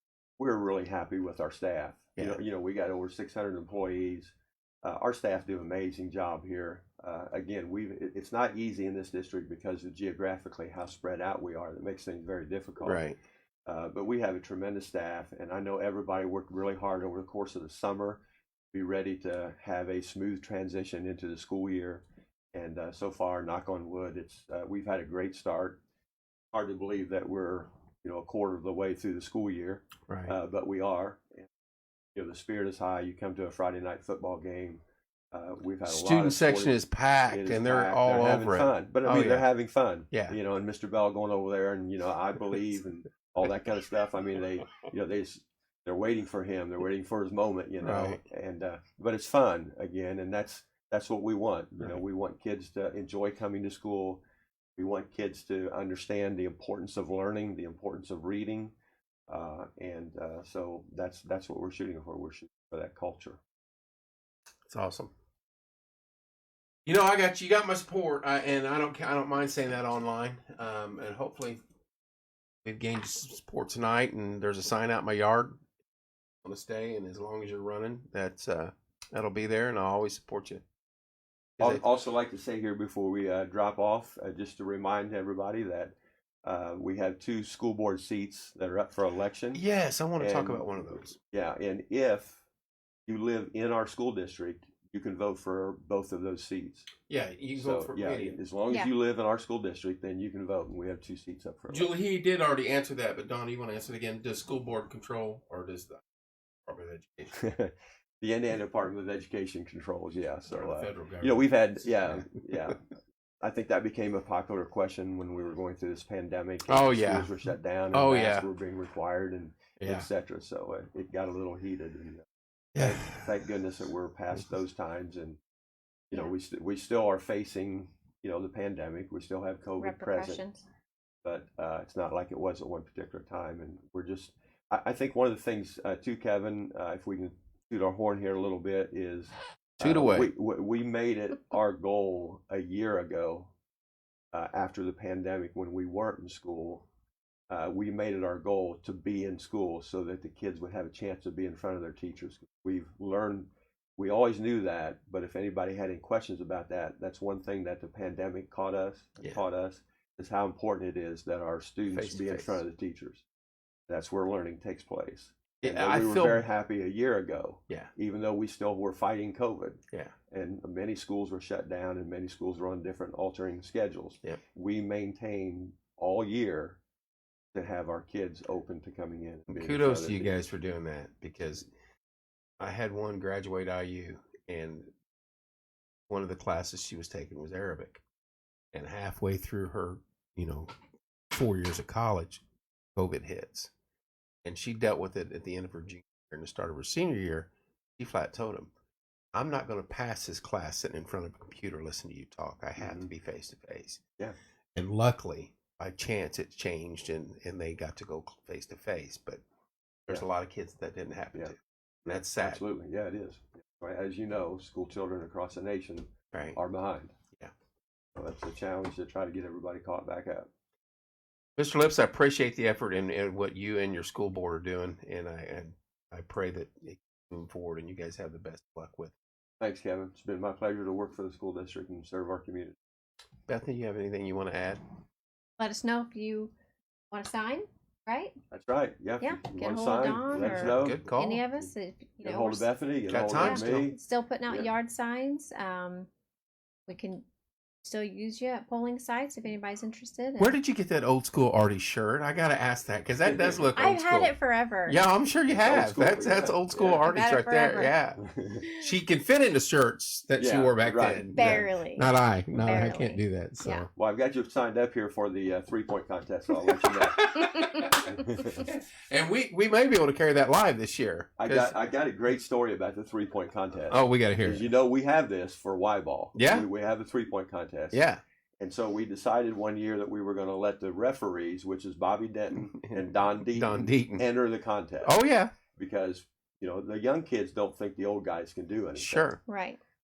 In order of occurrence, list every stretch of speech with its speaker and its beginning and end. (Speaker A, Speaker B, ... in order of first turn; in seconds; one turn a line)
Speaker A: 0.4-4.3
Speaker A: 4.8-13.0
Speaker B: 12.8-13.2
Speaker A: 13.7-18.2
Speaker A: 18.7-22.0
Speaker A: 22.5-25.8
Speaker A: 26.5-31.5
Speaker B: 30.1-30.4
Speaker A: 32.1-34.8
Speaker A: 35.3-54.2
Speaker B: 35.9-39.5
Speaker B: 40.1-40.4
Speaker B: 47.8-48.2
Speaker A: 54.8-58.7
Speaker A: 59.3-63.4
Speaker B: 64.7-65.1
Speaker B: 66.9-71.6
Speaker B: 72.6-75.6
Speaker B: 76.4-80.6
Speaker B: 81.6-81.8
Speaker A: 81.6-89.6
Speaker B: 89.5-91.2
Speaker A: 90.2-92.4
Speaker A: 93.1-96.9
Speaker B: 97.1-98.4
Speaker A: 97.5-101.9
Speaker B: 101.7-106.0
Speaker B: 106.7-107.3
Speaker A: 107.4-112.8
Speaker B: 110.5-112.3
Speaker A: 113.4-122.2
Speaker B: 116.7-117.3
Speaker B: 117.9-118.5
Speaker B: 119.8-120.1
Speaker B: 122.8-123.3
Speaker A: 122.8-125.4
Speaker A: 126.1-130.4
Speaker C: 129.8-130.6
Speaker A: 131.2-143.5
Speaker B: 139.8-140.3
Speaker A: 144.3-146.9
Speaker A: 147.5-163.2
Speaker B: 161.9-162.6
Speaker A: 163.9-176.8
Speaker B: 165.6-166.5
Speaker A: 177.5-180.4
Speaker B: 179.5-181.7
Speaker B: 182.6-184.9
Speaker B: 186.1-188.0
Speaker B: 188.7-190.7
Speaker B: 191.3-192.4
Speaker B: 193.0-193.7
Speaker B: 194.4-198.7
Speaker B: 199.3-204.0
Speaker A: 202.8-203.1
Speaker B: 204.8-209.4
Speaker B: 210.1-212.6
Speaker A: 212.1-217.1
Speaker A: 218.2-220.5
Speaker B: 221.6-229.1
Speaker A: 229.6-232.8
Speaker B: 233.5-234.8
Speaker C: 235.6-236.5
Speaker C: 237.1-238.3
Speaker A: 238.5-241.1
Speaker C: 239.2-242.7
Speaker B: 240.3-241.5
Speaker A: 242.2-244.7
Speaker B: 243.1-243.9
Speaker C: 243.3-246.1
Speaker C: 246.9-247.2
Speaker C: 247.8-250.6
Speaker B: 250.4-263.9
Speaker A: 253.2-253.7
Speaker C: 253.8-255.0
Speaker A: 255.5-257.1
Speaker C: 257.0-258.0
Speaker A: 258.2-258.7
Speaker A: 260.4-261.7
Speaker C: 261.4-263.9
Speaker A: 263.9-267.3
Speaker B: 266.8-271.7
Speaker C: 267.5-267.9
Speaker A: 268.0-268.7
Speaker A: 271.4-278.0
Speaker B: 273.9-274.7
Speaker B: 276.4-276.7
Speaker B: 277.9-278.2
Speaker A: 278.6-285.2
Speaker B: 282.7-284.3
Speaker B: 285.0-285.5
Speaker A: 285.7-289.3
Speaker B: 289.0-289.4
Speaker C: 289.5-289.8